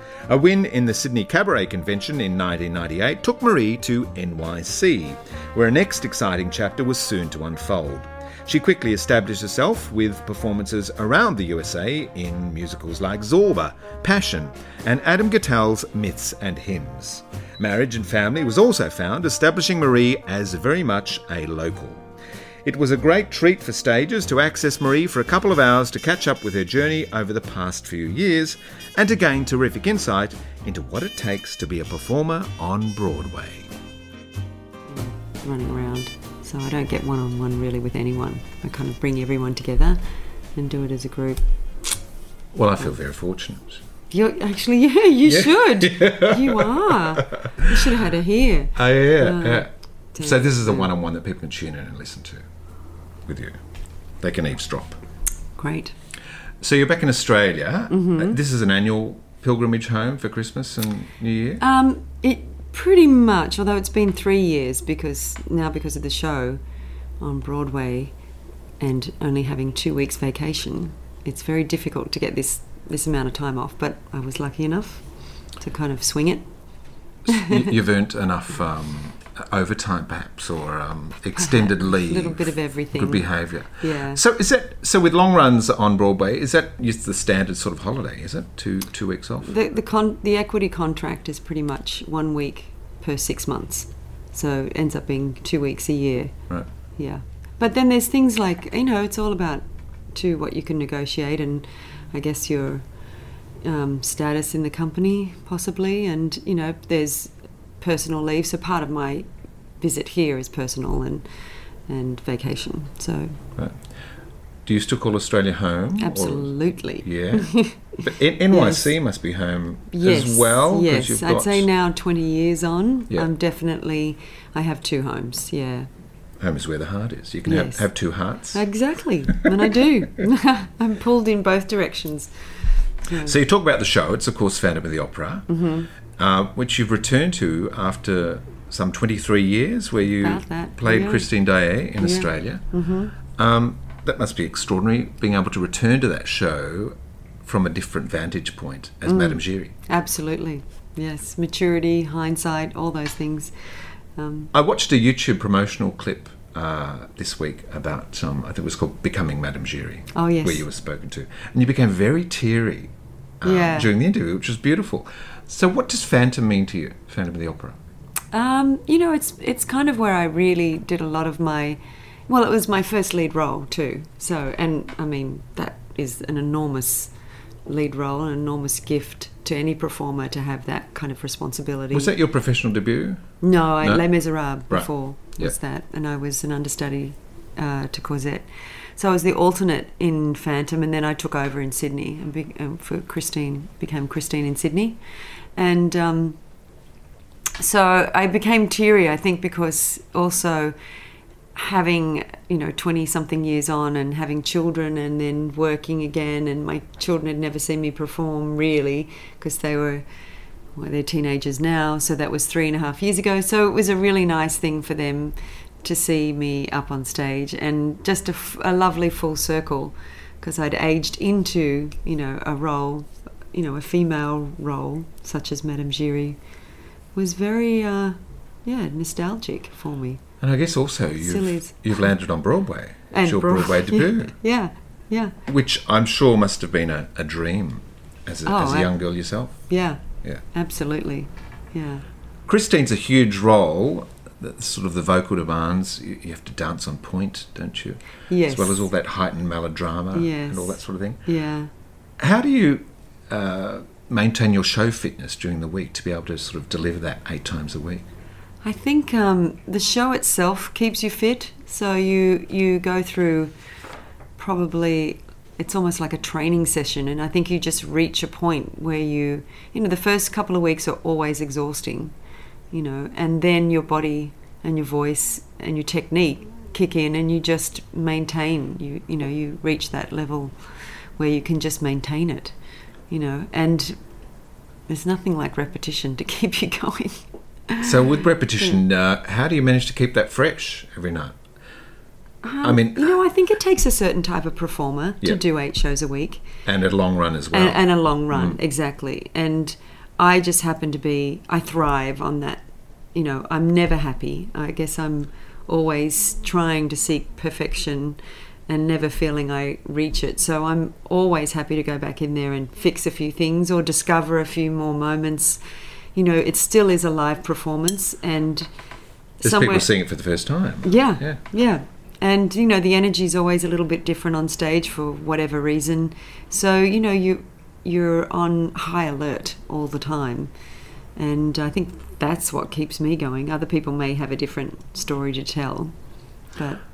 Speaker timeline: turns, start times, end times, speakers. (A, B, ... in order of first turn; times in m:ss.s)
0:00.3-0:22.0 A
0:22.6-0:33.7 A
0:34.9-0:40.0 B
0:40.5-0:41.4 B
0:42.5-0:43.8 A
0:44.1-0:50.9 B
0:45.2-0:47.7 A
0:48.7-0:52.4 A
0:53.3-0:53.6 A
0:54.2-0:55.0 A
0:55.6-0:56.0 B
0:56.6-1:01.6 A
0:57.9-0:58.4 B
1:01.6-1:06.6 B
1:07.2-1:08.2 B
1:08.8-1:16.5 B
1:17.2-1:29.5 A
1:17.3-1:17.6 B
1:21.4-1:24.2 B
1:29.4-1:36.4 B
1:37.0-1:42.9 B
1:43.6-1:49.3 B
1:49.8-1:51.2 B
1:51.9-1:53.4 B
1:53.6-1:53.9 A
1:54.6-2:01.7 A
1:56.0-1:58.0 B
1:58.5-1:58.9 B
1:59.9-2:05.9 B
2:06.4-2:08.6 A
2:07.5-2:07.8 B
2:08.5-2:13.4 B
2:13.2-2:15.5 A
2:15.5-2:15.9 B
2:16.1-2:22.6 A
2:20.2-2:21.3 B
2:22.0-2:23.1 B
2:23.3-2:29.8 A
2:29.1-2:33.5 B
2:34.1-2:34.5 B
2:34.5-2:47.8 A
2:40.1-2:40.6 B
2:43.4-2:43.9 B
2:48.3-2:57.1 B
2:57.7-3:02.1 B
3:01.9-3:04.0 A
3:03.4-3:15.0 B
3:04.7-3:05.5 A
3:15.6-3:16.4 B
3:17.6-3:20.8 B
3:21.5-3:30.0 B
3:30.7-3:46.4 B
3:47.1-3:50.2 B
3:50.4-3:54.3 A
3:51.2-3:52.1 B
3:53.1-3:55.4 B
3:55.4-3:59.6 A
3:58.5-3:58.9 B
3:59.7-4:02.0 B
4:02.5-4:11.2 A
4:08.3-4:08.9 B
4:10.1-4:11.7 B
4:12.2-4:18.1 A
4:18.6-4:23.5 B
4:24.4-4:32.1 B
4:32.7-4:40.6 B
4:41.2-4:42.6 B
4:43.1-4:44.0 B
4:44.9-4:48.0 B
4:47.8-4:51.4 A
4:52.4-4:56.4 B
4:52.6-4:53.1 A
4:56.6-4:58.6 A
4:57.5-5:15.6 B
5:16.1-5:18.7 B
5:19.4-5:19.9 B
5:19.4-5:21.4 A
5:20.8-5:30.5 B
5:31.1-5:35.9 B
5:36.5-5:36.8 B